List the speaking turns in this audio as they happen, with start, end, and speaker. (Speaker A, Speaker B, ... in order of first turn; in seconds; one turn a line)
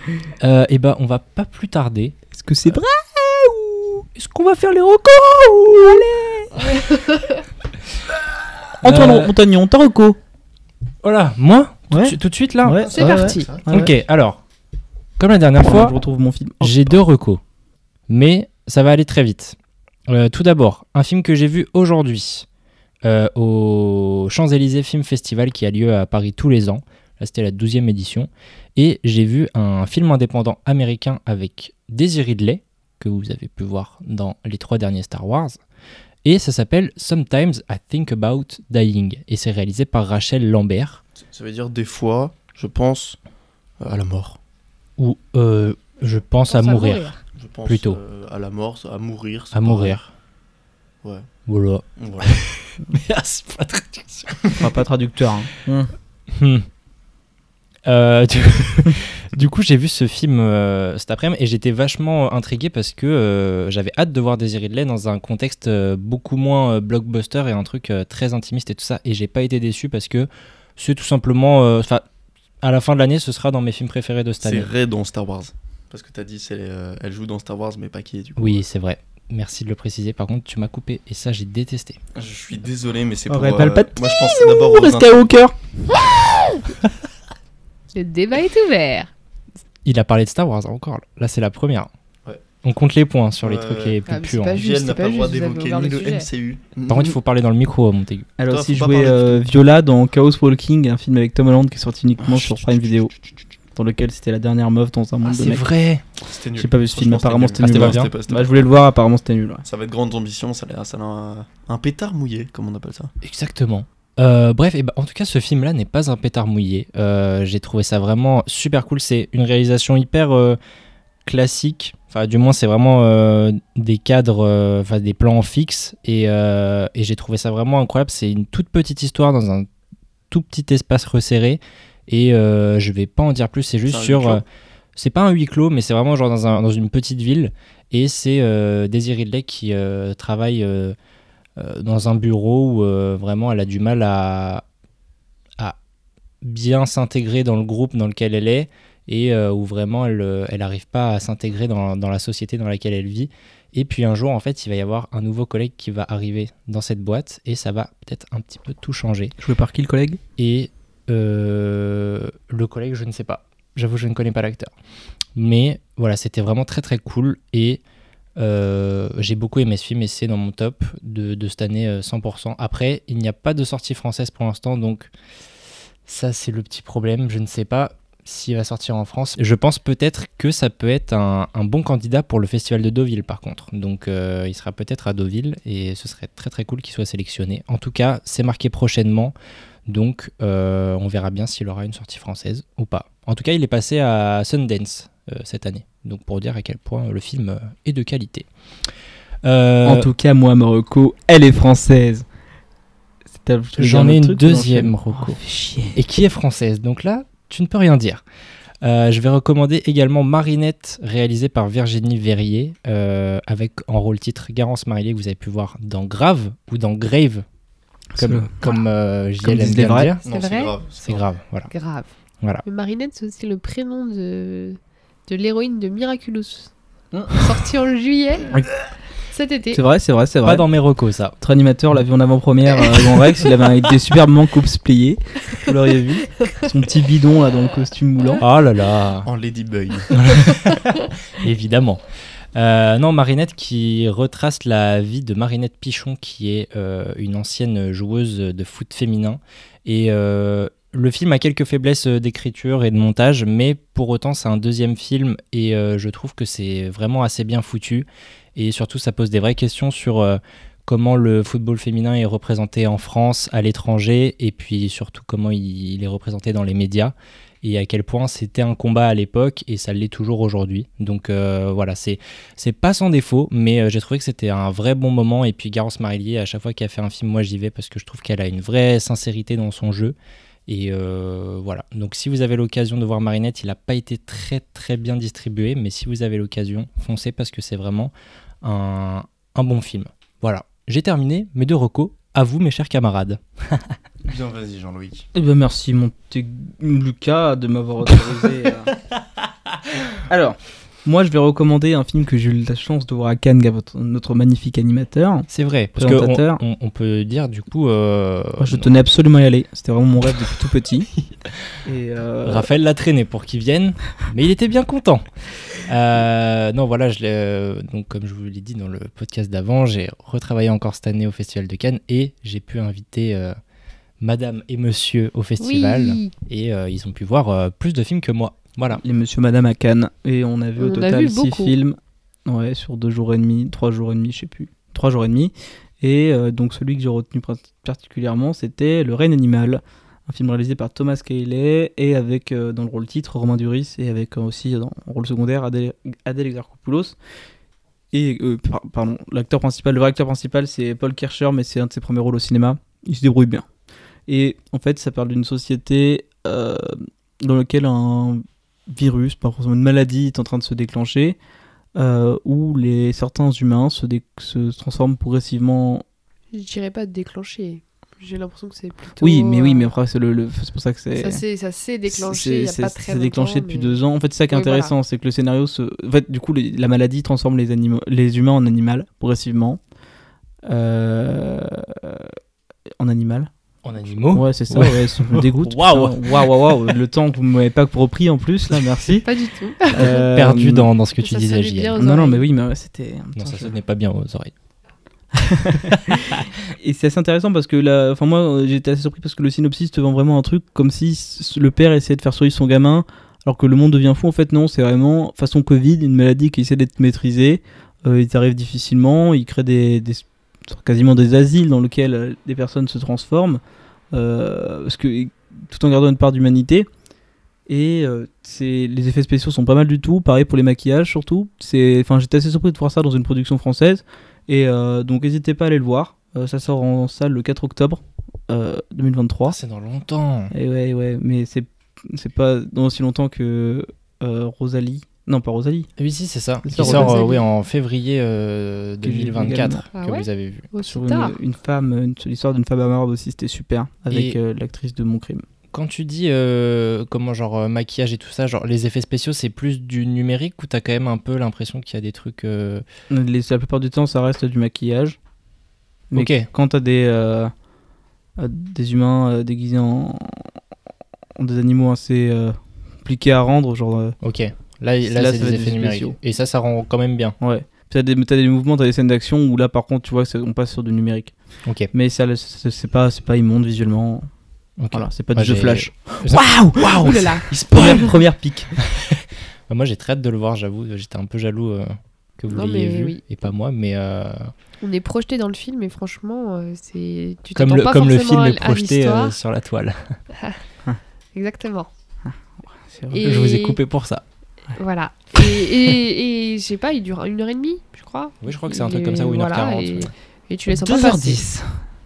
Speaker A: 0.4-2.1
Speaker B: 2.3-4.0
Speaker A: 4.1-6.8
Speaker C: 6.7-7.3
Speaker A: 8.8-9.3
Speaker B: 8.8-10.2
Speaker A: 11.0-12.8
Speaker B: 11.9-13.9
Speaker D: 12.8-13.7
Speaker C: 12.9-13.5
Speaker A: 13.7-14.4
Speaker A: 15.2-16.0
Speaker B: 15.6-16.9
Speaker A: 16.6-17.4
Speaker A: 18.1-19.6
Speaker A: 20.1-22.4
Speaker A: 23.0-35.6
Speaker A: 36.2-41.0
Speaker D: 41.2-43.2
Speaker D: 43.8-44.4
Speaker A: 45.0-47.1
Speaker C: 46.5-47.2
Speaker D: 47.4-50.0
Speaker A: 47.6-48.0
Speaker A: 49.5-50.1
Speaker A: 51.5-52.4
Speaker D: 52.0-52.4
Speaker A: 52.9-54.6
Speaker B: 54.6-55.9
Speaker A: 56.3-56.7
Speaker A: 57.8-72.0
Speaker A: 72.6-74.7
Speaker D: 74.4-78.6
Speaker A: 78.4-82.0
Speaker D: 82.1-85.3
Speaker B: 83.3-85.5
Speaker C: 87.9-89.1
Speaker A: 89.8-91.9
Speaker A: 92.6-94.6
Speaker D: 93.4-97.2
Speaker C: 94.0-96.3
Speaker A: 96.9-98.3
Speaker B: 98.4-103.1
Speaker D: 98.5-99.5
Speaker D: 102.2-103.2
Speaker B: 103.8-105.6
Speaker A: 105.2-106.0
Speaker D: 106.2-108.5
Speaker B: 106.5-109.6
Speaker A: 107.6-108.1
Speaker D: 109.6-113.1
Speaker A: 113.2-120.6
Speaker A: 121.2-129.7
Speaker A: 130.3-134.4
Speaker D: 133.8-134.4
Speaker A: 134.9-140.9
Speaker A: 141.6-144.6
Speaker A: 146.4-159.3
Speaker B: 159.4-160.2
Speaker A: 160.4-164.7
Speaker A: 165.3-167.8
Speaker A: 168.4-175.1
Speaker A: 176.1-189.3
Speaker A: 189.9-198.5
Speaker A: 199.4-200.1
Speaker B: 199.8-202.2
Speaker B: 203.3-206.0
Speaker A: 203.8-205.4
Speaker A: 205.9-208.2
Speaker A: 208.8-217.4
Speaker B: 218.1-218.8
Speaker A: 218.2-220.2
Speaker B: 219.4-220.1
Speaker C: 220.1-220.7
Speaker D: 220.2-221.2
Speaker A: 221.0-221.7
Speaker C: 221.7-222.1
Speaker C: 222.6-226.7
Speaker D: 227.1-227.4
Speaker C: 227.3-228.5
Speaker C: 229.3-229.8
Speaker B: 229.7-230.7
Speaker A: 230.4-231.3
Speaker B: 231.4-238.4
Speaker A: 238.4-239.3
Speaker D: 239.2-240.1
Speaker A: 240.1-242.0
Speaker A: 242.5-280.1
Speaker A: 280.7-293.9
Speaker D: 294.2-295.2
Speaker B: 295.3-298.9
Speaker B: 300.3-306.6
Speaker A: 305.5-309.0
Speaker B: 308.6-311.1
Speaker B: 311.8-312.7
Speaker A: 312.4-315.2
Speaker A: 315.8-323.6
Speaker A: 324.2-329.0
Speaker C: 325.6-326.3
Speaker B: 329.0-347.1
Speaker C: 330.8-331.7
Speaker B: 348.1-353.6
Speaker B: 354.3-361.4
Speaker B: 361.9-366.0
Speaker C: 366.5-369.9
Speaker B: 369.2-371.4
Speaker C: 371.1-374.0
Speaker B: 372.1-379.8
Speaker C: 374.5-374.9
Speaker B: 380.6-382.3
Speaker B: 383.0-383.5
Speaker A: 383.8-387.0
Speaker B: 384.3-389.3
Speaker C: 389.2-390.2
Speaker B: 389.9-390.9
Speaker A: 390.0-392.0
Speaker C: 391.2-392.4
Speaker B: 392.0-393.7
Speaker A: 393.3-394.5
Speaker B: 395.4-413.6
Speaker A: 395.8-396.5
Speaker B: 414.1-416.9
Speaker B: 417.7-429.6
Speaker A: 429.5-430.5
Speaker B: 430.5-435.9
Speaker A: 436.0-440.7
Speaker B: 436.6-437.3
Speaker C: 436.8-437.4
Speaker B: 439.0-439.8
Speaker C: 439.9-441.4
Speaker B: 440.9-445.4
Speaker A: 444.1-444.4
Speaker A: 445.7-452.8
Speaker B: 453.1-455.2
Speaker B: 456.1-457.5
Speaker A: 456.1-456.5
Speaker B: 458.4-460.5
Speaker B: 461.4-464.1
Speaker A: 464.2-467.4
Speaker B: 465.0-466.1
Speaker B: 467.4-471.3
Speaker A: 471.6-471.9
Speaker B: 471.9-474.3
Speaker A: 474.8-478.1
Speaker B: 474.9-478.8
Speaker C: 476.8-478.1
Speaker A: 478.8-484.5
Speaker C: 482.5-483.2
Speaker C: 484.8-489.4
Speaker A: 487.5-490.2
Speaker C: 491.3-491.9
Speaker B: 492.2-493.2
Speaker C: 493.1-493.8
Speaker A: 493.2-494.2
Speaker C: 494.8-501.4
Speaker A: 498.4-500.1
Speaker B: 500.7-501.8